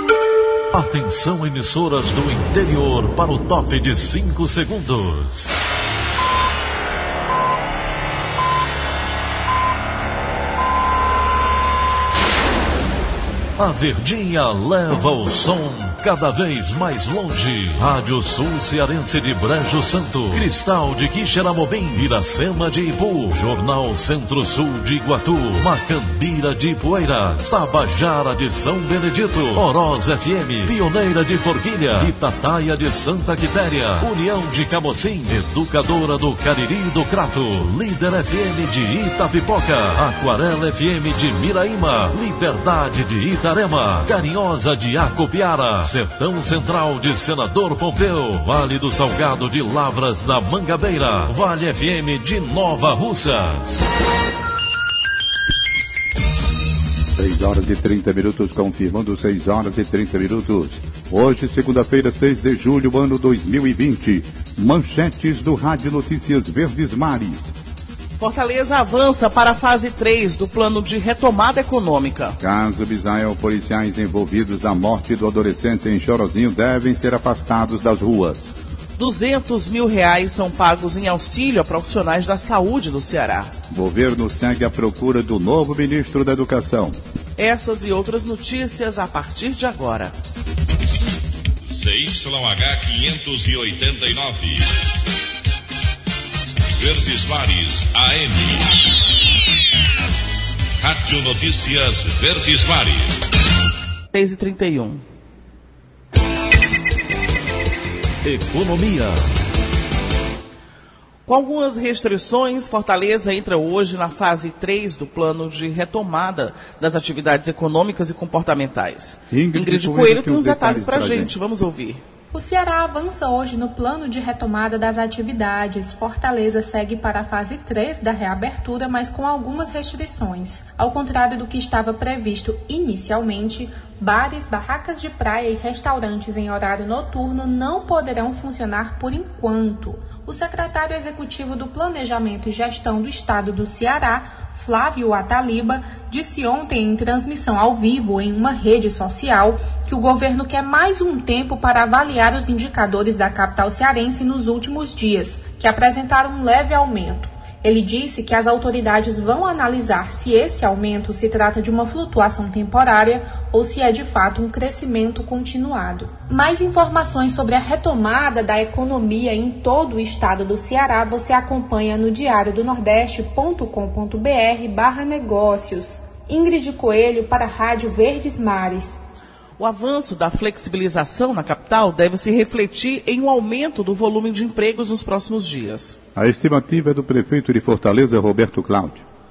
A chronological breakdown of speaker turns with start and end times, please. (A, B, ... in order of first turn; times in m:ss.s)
0:00.7-0:05.5 A
0:13.6-0:53.8 A
0:57.2-1:07.5 B
1:08.2-1:12.4 C
1:12.4-1:18.5 B
1:19.0-1:23.5 C
1:23.7-1:27.0 B
1:27.4-1:30.1 C
1:31.7-1:34.7 D
1:36.7-1:38.8 D
1:40.8-1:43.1 D
1:44.1-1:45.0 C
1:48.2-1:49.2 A
1:51.2-2:02.0 C
1:59.3-2:01.3 B
2:02.3-2:59.0 E
2:59.6-3:06.0 C
3:06.1-3:09.0 B